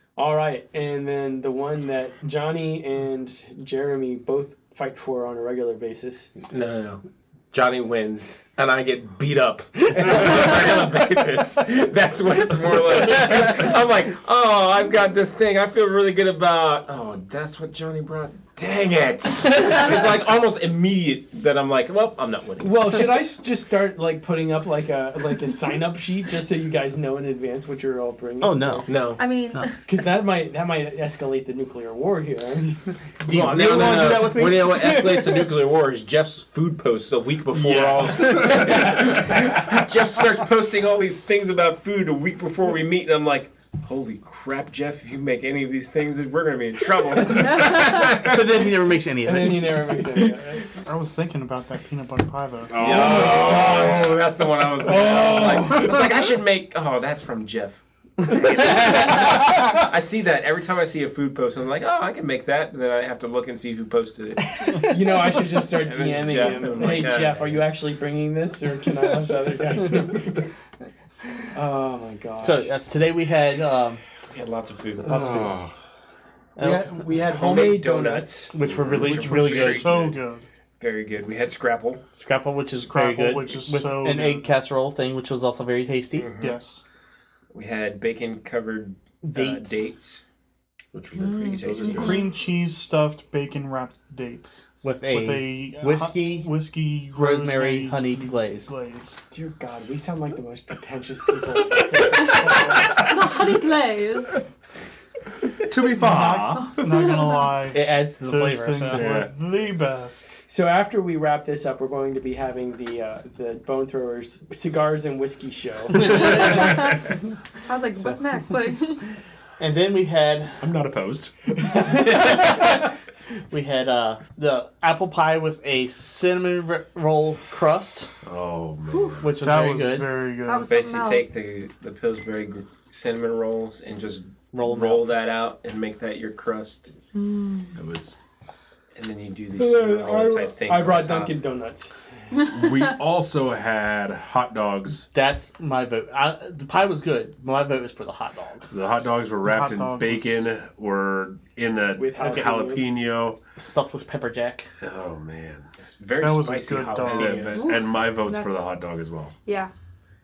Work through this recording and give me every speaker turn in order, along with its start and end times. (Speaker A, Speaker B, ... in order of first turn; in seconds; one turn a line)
Speaker A: 0.2-6.3
Speaker B: 6.5-22.9
Speaker A: 22.6-28.9
Speaker C: 28.4-29.0
Speaker B: 28.9-29.2
Speaker D: 29.2-29.8
Speaker A: 29.8-34.2
Speaker C: 33.3-35.5
Speaker B: 33.3-48.6
Speaker E: 37.5-39.4
Speaker D: 47.3-47.9
Speaker C: 48.0-50.0
Speaker A: 49.2-50.7
Speaker F: 50.8-53.1
Speaker E: 52.7-54.2
Speaker B: 52.8-64.8
Speaker A: 52.9-54.0
Speaker A: 54.9-56.0
Speaker C: 58.6-58.9
Speaker A: 64.8-70.5
Speaker B: 65.8-67.6
Speaker A: 71.5-72.7
Speaker C: 72.4-74.0
Speaker B: 74.3-75.2
Speaker C: 75.1-75.6
Speaker E: 75.1-75.7
Speaker C: 76.6-76.9
Speaker A: 76.6-78.5
Speaker B: 77.2-80.2
Speaker C: 78.5-79.9
Speaker E: 78.6-79.8
Speaker F: 79.1-80.5
Speaker B: 80.8-82.0
Speaker C: 82.2-86.3
Speaker F: 82.8-84.5
Speaker B: 86.2-86.6
Speaker F: 86.4-86.8
Speaker B: 87.5-90.2
Speaker C: 89.2-89.8
Speaker B: 90.9-92.2
Speaker D: 91.2-92.2
Speaker E: 91.6-92.1
Speaker F: 92.0-99.2
Speaker C: 94.8-96.5
Speaker C: 97.2-98.7
Speaker A: 99.3-103.1
Speaker D: 102.1-104.4
Speaker E: 105.6-106.8
Speaker F: 105.9-110.4
Speaker D: 106.6-107.6
Speaker C: 107.7-109.3
Speaker E: 108.9-109.3
Speaker A: 110.5-116.8
Speaker D: 116.1-117.0
Speaker D: 117.7-119.1
Speaker C: 119.6-120.6
Speaker E: 120.6-121.3
Speaker C: 121.7-122.9
Speaker C: 123.5-128.1
Speaker E: 128.2-129.4
Speaker D: 128.9-129.2
Speaker C: 129.2-130.2
Speaker F: 129.4-130.7
Speaker D: 130.4-131.4
Speaker B: 130.7-136.9
Speaker C: 134.5-135.1
Speaker D: 137.1-137.7
Speaker E: 137.8-138.2
Speaker B: 139.0-141.3
Speaker A: 139.6-141.9
Speaker E: 142.4-145.1
Speaker C: 145.1-148.7
Speaker E: 148.7-153.4
Speaker F: 149.4-150.5
Speaker A: 152.0-152.9
Speaker C: 152.2-152.5
Speaker C: 153.6-154.7
Speaker E: 154.8-155.7
Speaker B: 156.0-157.7
Speaker F: 156.2-157.5
Speaker E: 157.0-159.3
Speaker D: 157.5-158.5
Speaker D: 159.5-159.7